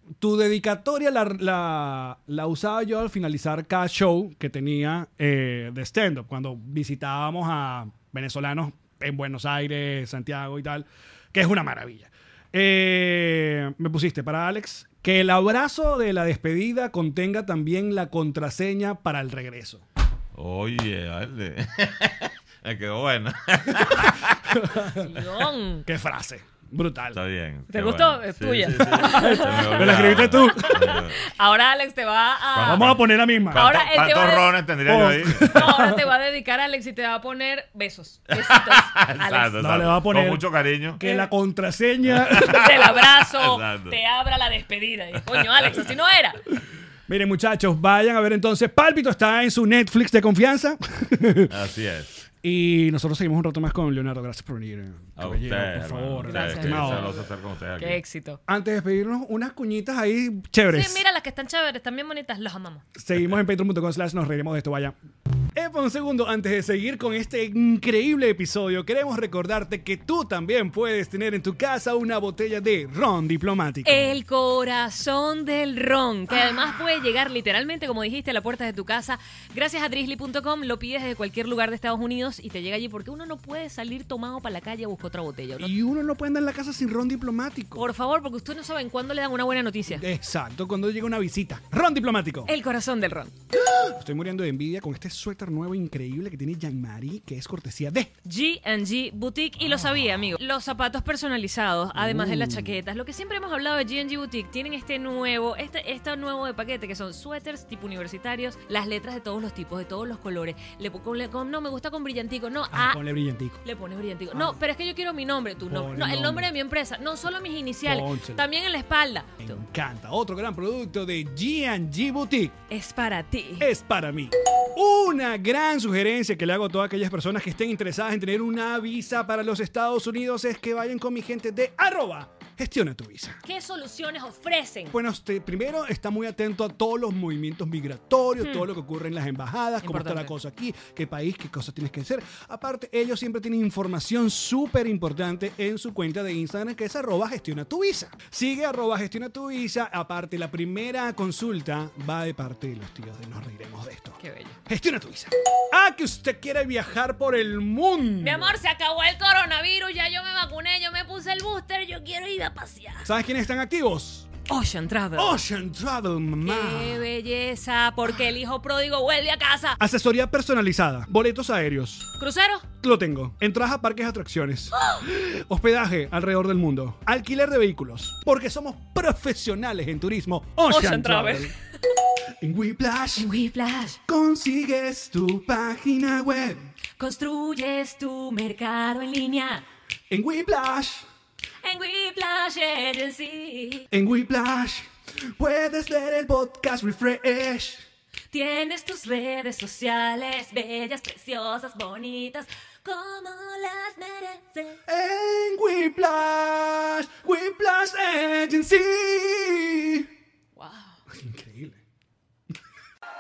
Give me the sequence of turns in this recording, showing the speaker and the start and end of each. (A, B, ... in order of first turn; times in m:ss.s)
0:00.2-0:19.8 A
0:20.3-0:24.7 B
0:24.6-0:25.0 A
0:24.9-0:25.9 C
0:25.9-0:27.2 A
0:27.1-0:31.3 B
0:27.7-0:32.9 C
0:29.1-0:31.0 A
0:32.5-0:35.7 B
0:32.6-0:33.6 A
0:33.5-0:34.6 C
0:34.9-0:36.0 A
0:35.4-0:39.6 C
0:38.4-0:41.0 B
0:39.6-0:40.4 A
0:41.0-0:42.7 A
0:42.1-0:44.0 B
0:42.4-0:46.4 C
0:47.1-0:51.6 A
0:51.5-0:52.2 B
0:52.4-0:57.2 A
0:55.2-0:58.0 B
0:56.2-0:57.2 C
0:57.8-0:58.4 C
0:58.5-1:01.0 A
1:00.7-1:02.8 C
1:03.0-1:05.0 A
1:05.6-1:14.2 A
1:13.8-1:25.7 C
1:25.6-1:27.8 A
1:27.8-1:30.0 C
1:29.9-1:32.5 A
1:32.5-1:33.3 C
1:33.5-1:38.1 A
1:38.2-1:53.0 C
1:42.0-1:42.8 A
1:52.7-1:53.6 A
1:53.6-1:59.6 C
1:54.3-1:54.6 A
1:55.6-1:56.5 A
1:57.8-1:58.4 A
1:59.4-2:02.6 A
2:02.7-2:03.7 C
2:03.6-2:13.4 A
2:13.4-2:15.0 C
2:14.9-2:38.5 A
2:19.8-2:20.3 C
2:34.2-2:34.6 C
2:38.2-2:43.1 C
2:43.0-2:44.3 A
2:44.5-2:45.4 C
2:45.2-2:47.0 A
2:46.4-2:49.8 C
2:49.8-2:52.1 A
2:52.2-2:52.7 C
2:52.8-3:01.5 A
3:00.7-3:01.5 C
3:02.4-3:03.3 A
3:03.2-3:04.0 C
3:04.1-3:06.7 A
3:07.0-3:09.6 C
3:10.1-3:11.1 A
3:11.6-3:13.9 C
3:13.9-3:17.8 A
3:18.3-3:24.8 C
3:24.9-3:30.1 A
3:30.6-3:31.0 C
3:31.1-3:31.8 A